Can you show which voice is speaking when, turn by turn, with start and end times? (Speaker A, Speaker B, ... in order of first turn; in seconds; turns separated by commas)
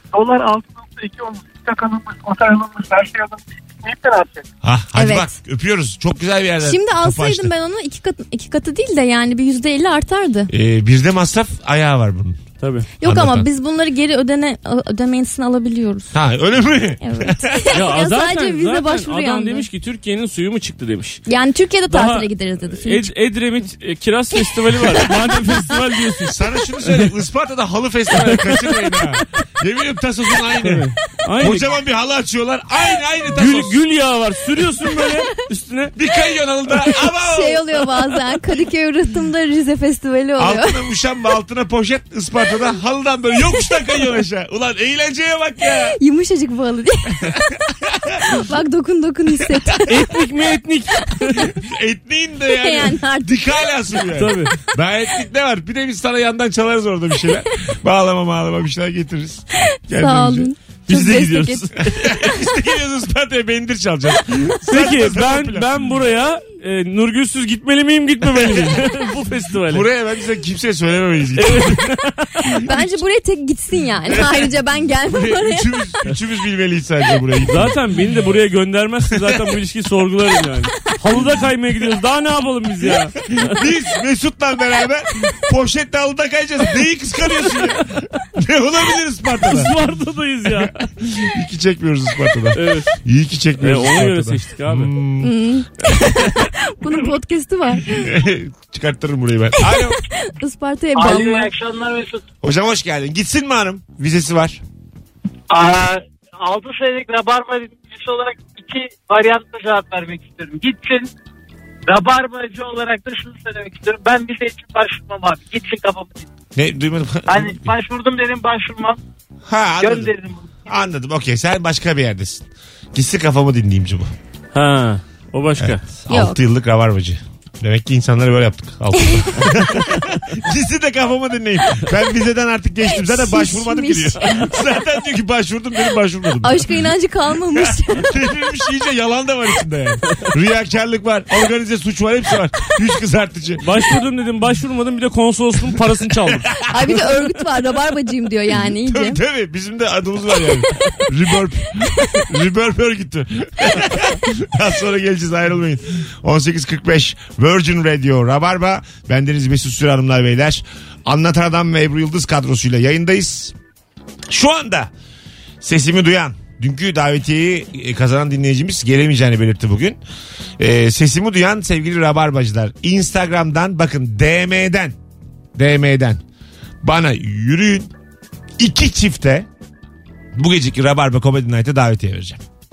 Speaker A: 0.1-4.5, Speaker B: 4.6-7.5, Speaker C: 5.0-5.3, Speaker C: 6.6-10.5, Speaker B: 10.5-12.4, Speaker D: 12.6-12.9, Speaker C: 13.0-16.1, Speaker B: 13.0-13.5, Speaker B: 16.1-17.8, Speaker C: 17.0-19.7, Speaker D: 17.7-21.2, Speaker C: 21.3-23.1, Speaker D: 21.9-27.1, Speaker B: 26.3-33.8, Speaker D: 28.3-29.2, Speaker D: 30.6-31.7, Speaker D: 33.3-35.9, Speaker B: 36.0-37.9, Speaker C: 37.1-40.8, Speaker B: 40.4-46.0, Speaker C: 46.0-47.3, Speaker B: 47.1-48.4, Speaker C: 48.4-49.9, Speaker B: 49.4-49.9, Speaker D: 49.9-51.5, Speaker B: 51.4-60.5, Speaker C: 52.5-53.3, Speaker D: 54.1-54.5, Speaker C: 59.9-61.7, Speaker D: 60.9-62.1, Speaker B: 61.8-65.8, Speaker D: 64.7-69.8, Speaker B: 68.3-68.7, Speaker B: 69.7-71.9, Speaker D: 71.3-72.5, Speaker C: 72.6-75.7, Speaker B: 74.1-77.8, Speaker D: 77.5-83.6, Speaker B: 79.2-79.5, Speaker B: 83.3-89.7, Speaker D: 89.4-90.7, Speaker B: 90.5-96.5, Speaker D: 92.5-92.9, Speaker D: 93.6-94.9, Speaker C: 95.2-98.1, Speaker B: 97.9-100.0, Speaker C: 99.6-101.5, Speaker E: 100.9-102.2, Speaker B: 102.4-104.6, Speaker E: 105.5-111.1, Speaker E: 111.9-116.3, Speaker B: 116.5-117.7, Speaker E: 117.2-119.0, Speaker B: 119.5-120.1, Speaker E: 119.8-120.6, Speaker B: 120.7-124.1, Speaker D: 124.5-125.8, Speaker B: 125.6-136.9, Speaker C: 126.1-126.4, Speaker C: 132.9-134.2, Speaker C: 136.4-138.1, Speaker B: 137.5-143.7, Speaker D: 143.6-146.5, Speaker B: 146.2-147.4, Speaker C: 146.7-149.2, Speaker B: 148.6-163.5, Speaker B: 164.3-164.9, Speaker B: 165.6-170.0, Speaker B: 170.6-174.9, Speaker B: 175.5-176.2, Speaker B: 176.8-177.9, Speaker B: 178.6-179.5, Speaker B: 180.3-182.4